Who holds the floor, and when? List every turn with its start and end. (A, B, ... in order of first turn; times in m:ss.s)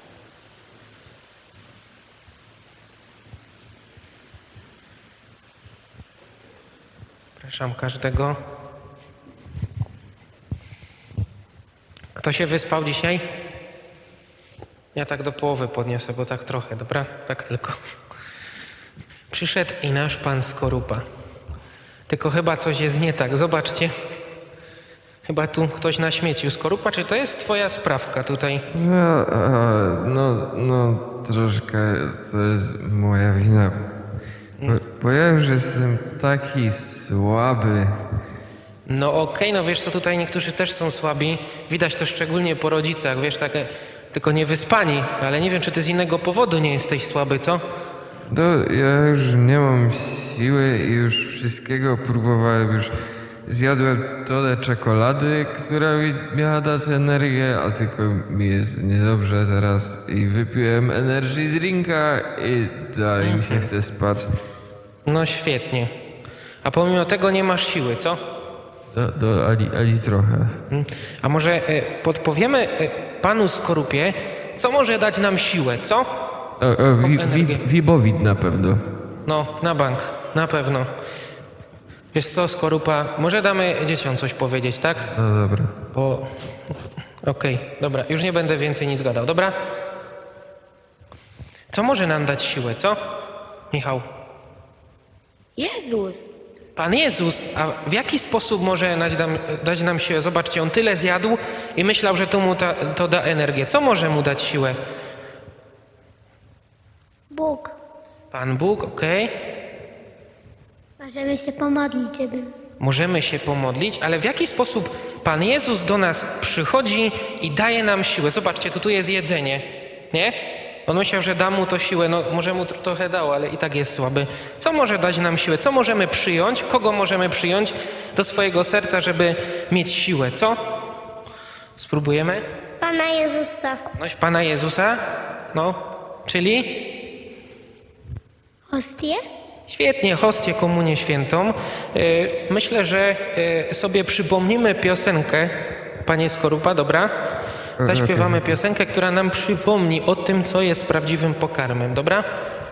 0:07.4-0:08.4 A
0:12.2-0:13.2 A
0:14.9-0:17.8 A
0:19.3-0:21.0 A
0:22.1-0:24.0 A
0:25.3-0:28.6 A
0:28.7-0:33.8 B
0:34.6-0:38.0 B
0:38.9-0:47.6 A
0:48.3-0:52.9 B
0:53.5-1:04.3 B
1:03.2-1:03.7 A
1:05.0-1:05.9 A
1:06.6-1:08.2 A
1:08.9-1:10.6 B
1:10.7-1:16.1 A
1:16.6-1:18.8 B
1:17.0-1:17.6 A
1:19.2-1:20.9 A
1:22.1-1:25.1 A
1:25.1-1:25.7 B
1:25.9-1:26.3 A
1:27.2-1:29.6 A
1:31.7-1:33.0 A
1:33.7-1:34.0 A
1:35.6-1:36.3 C
1:36.8-1:44.8 A
1:47.3-1:47.7 C
1:48.3-1:49.3 A
1:51.0-1:52.5 C
1:52.8-2:10.6 A
2:11.8-2:12.4 A
2:12.8-2:13.8 C
2:14.0-2:15.0 A
2:15.5-2:16.8 A
2:18.7-2:19.2 C
2:19.7-2:27.1 A
2:27.8-2:28.5 B
2:27.8-2:32.2 A